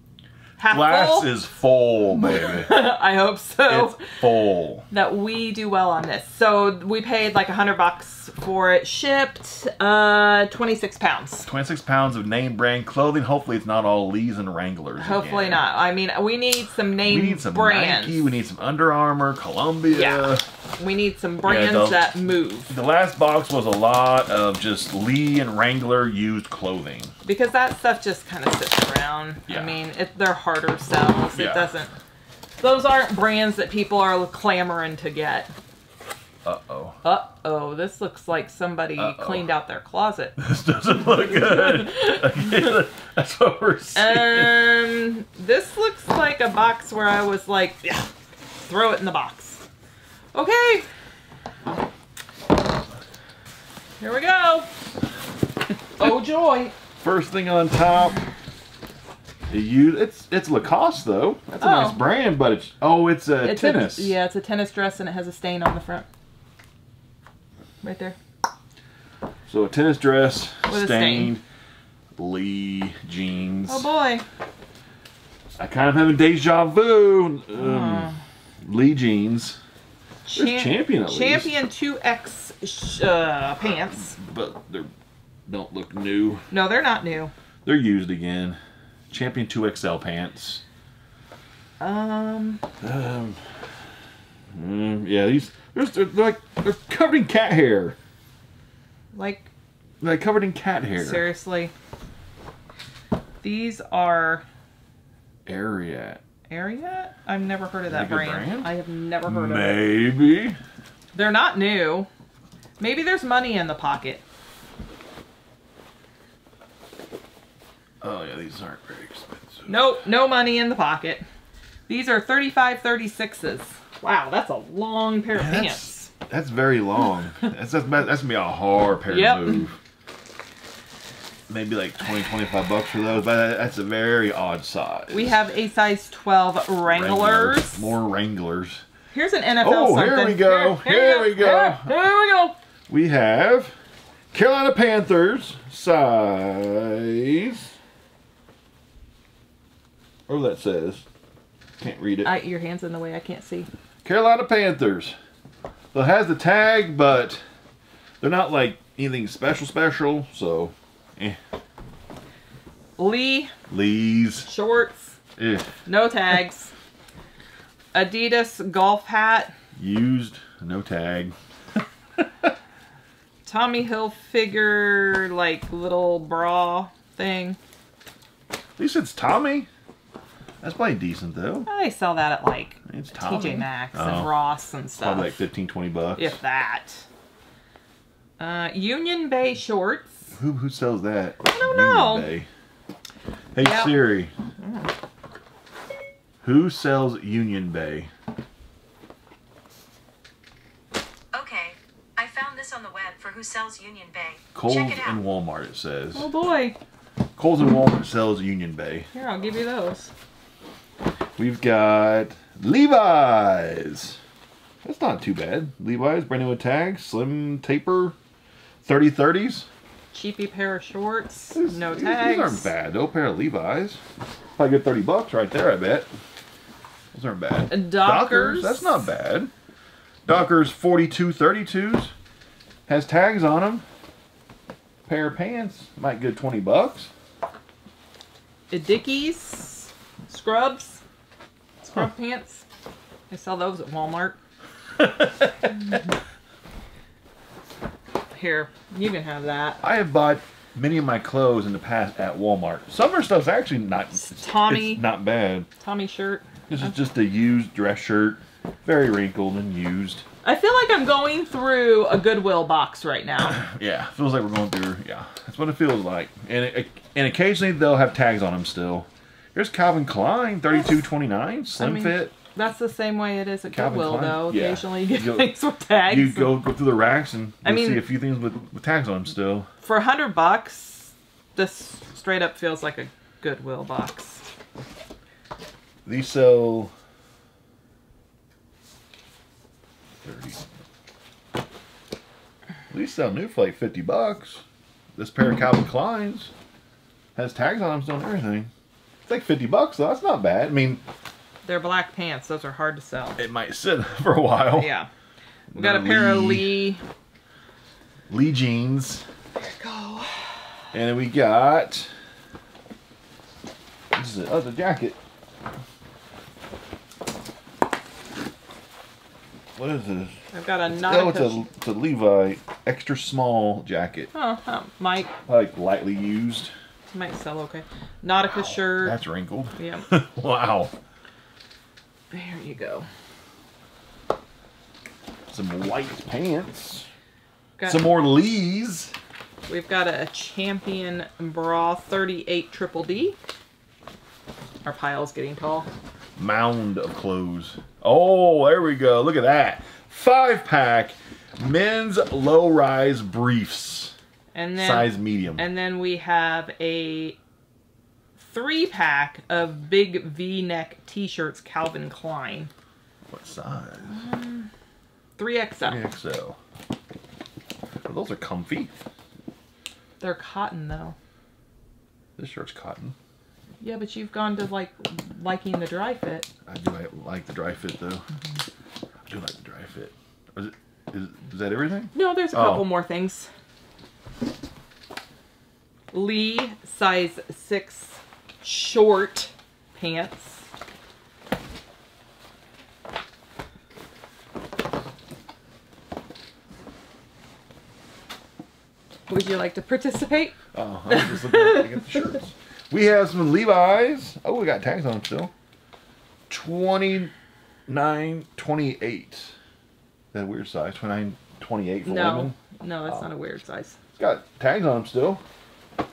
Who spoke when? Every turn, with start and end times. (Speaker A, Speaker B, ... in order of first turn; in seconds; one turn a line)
Speaker A: 0.6-1.5
Speaker B: 0.7-2.7
Speaker A: 2.1-4.0
Speaker B: 3.7-4.9
Speaker A: 4.9-11.5
Speaker B: 11.5-15.7
Speaker A: 15.0-18.4
Speaker B: 17.0-20.4
Speaker A: 19.9-22.8
Speaker B: 21.4-22.1
Speaker B: 22.7-27.1
Speaker A: 27.2-31.9
Speaker B: 29.5-29.8
Speaker B: 31.3-31.7
Speaker A: 32.6-35.5
Speaker B: 36.5-37.0
Speaker A: 37.0-40.4
Speaker B: 39.0-39.5
Speaker B: 40.4-44.7
Speaker A: 41.2-42.6
Speaker A: 44.0-48.1
Speaker A: 48.7-49.6
Speaker A: 50.3-50.9
Speaker A: 54.0-54.7
Speaker A: 56.0-56.7
Speaker B: 57.0-58.2
Speaker B: 59.5-64.2
Speaker A: 61.5-62.0
Speaker A: 63.4-66.1
Speaker A: 67.8-68.2
Speaker B: 69.5-71.4
Speaker A: 70.7-71.3
Speaker B: 72.2-73.9
Speaker A: 73.7-74.2
Speaker B: 75.6-79.6
Speaker A: 77.5-78.2
Speaker A: 80.3-84.2
Speaker B: 80.3-81.5
Speaker B: 84.1-84.9
Speaker B: 85.5-86.4
Speaker A: 86.5-87.3
Speaker B: 87.7-88.6
Speaker B: 89.1-90.6
Speaker A: 91.8-92.6
Speaker B: 92.8-93.7
Speaker B: 94.5-98.0
Speaker A: 99.1-99.5
Speaker B: 100.0-101.3
Speaker A: 101.0-101.7
Speaker A: 103.4-104.5
Speaker B: 105.5-106.2
Speaker A: 106.5-109.8
Speaker B: 107.9-108.7
Speaker B: 109.3-110.6
Speaker A: 111.1-112.1
Speaker A: 112.8-114.2
Speaker B: 118.0-119.8
Speaker A: 119.7-121.2
Speaker A: 121.9-126.1
Speaker B: 125.3-129.8
Speaker A: 129.1-129.7
Speaker B: 131.5-135.4
Speaker A: 135.1-138.0
Speaker B: 136.9-138.8
Speaker A: 139.1-142.6
Speaker B: 139.6-141.9
Speaker B: 142.9-143.8
Speaker B: 144.3-147.7
Speaker B: 150.3-151.0
Speaker B: 151.8-152.3
Speaker A: 152.2-153.7
Speaker B: 154.0-155.2
Speaker B: 155.9-157.4
Speaker B: 158.2-161.4
Speaker A: 163.0-163.5
Speaker B: 163.7-164.5
Speaker A: 164.5-165.2
Speaker B: 165.4-165.7
Speaker A: 165.9-166.7
Speaker A: 167.9-169.6
Speaker B: 169.8-171.3
Speaker B: 172.2-172.5
Speaker A: 173.5-177.6
Speaker B: 178.8-179.7
Speaker B: 180.6-181.7
Speaker A: 181.7-185.4
Speaker B: 182.9-184.3
Speaker B: 185.0-186.4
Speaker A: 186.2-187.1
Speaker A: 188.4-190.2
Speaker B: 190.3-192.5
Speaker A: 191.4-192.3
Speaker B: 193.5-194.3
Speaker A: 193.6-193.9
Speaker A: 194.6-194.9
Speaker B: 196.4-198.1
Speaker C: 201.3-205.1
Speaker B: 204.6-206.3
Speaker A: 206.2-206.8
Speaker B: 207.4-209.1
Speaker A: 209.1-210.1
Speaker B: 211.4-214.2
Speaker B: 214.8-218.2
Speaker B: 218.8-219.7
Speaker A: 220.1-222.7
Speaker B: 221.5-224.0
Speaker B: 224.6-226.1
Speaker B: 227.1-229.5
Speaker A: 227.7-229.1
Speaker B: 230.3-232.1
Speaker B: 232.9-233.8
Speaker B: 235.1-237.1
Speaker A: 238.7-241.0
Speaker A: 241.8-242.7
Speaker A: 243.3-244.4
Speaker B: 245.0-245.9
Speaker A: 248.3-249.8
Speaker B: 249.8-255.7
Speaker A: 254.1-255.1
Speaker A: 255.8-256.6
Speaker B: 256.7-260.2
Speaker A: 260.4-263.6
Speaker B: 263.4-272.4
Speaker A: 271.8-276.6
Speaker B: 273.7-275.5
Speaker B: 276.0-279.7
Speaker A: 277.6-278.1
Speaker A: 279.8-284.5
Speaker B: 286.1-286.9
Speaker B: 290.2-290.6
Speaker B: 292.9-294.6
Speaker B: 295.2-296.5
Speaker B: 297.4-298.7
Speaker B: 299.3-301.0
Speaker A: 301.6-303.4
Speaker B: 303.4-304.9
Speaker A: 304.7-305.1
Speaker A: 305.7-307.0
Speaker B: 305.7-306.8
Speaker B: 308.3-309.3
Speaker A: 309.6-310.8
Speaker B: 310.9-312.1
Speaker B: 314.1-315.2
Speaker B: 319.8-320.3
Speaker A: 320.5-321.6
Speaker B: 320.9-324.3
Speaker A: 324.3-325.3
Speaker B: 325.5-326.7
Speaker A: 327.1-329.2
Speaker B: 328.8-330.9
Speaker A: 329.8-330.1
Speaker A: 332.3-333.1
Speaker B: 335.5-337.1
Speaker A: 337.8-338.1
Speaker B: 337.9-339.1
Speaker A: 339.7-343.4
Speaker A: 344.9-345.9
Speaker B: 346.4-354.1
Speaker A: 354.5-357.4
Speaker B: 354.8-355.6
Speaker A: 358.4-362.7
Speaker B: 363.3-364.2
Speaker A: 364.0-364.7
Speaker A: 365.4-366.0
Speaker B: 365.9-366.6
Speaker B: 368.1-369.0
Speaker A: 370.2-371.2
Speaker B: 372.4-373.2
Speaker A: 373.8-376.5
Speaker B: 376.7-378.2
Speaker B: 379.3-382.9
Speaker A: 382.1-383.5
Speaker A: 386.1-390.6
Speaker A: 399.3-400.6
Speaker B: 400.7-405.5
Speaker A: 401.1-402.3
Speaker B: 406.5-407.3
Speaker B: 407.9-409.5
Speaker B: 410.3-413.3
Speaker A: 412.0-414.0
Speaker B: 414.1-415.4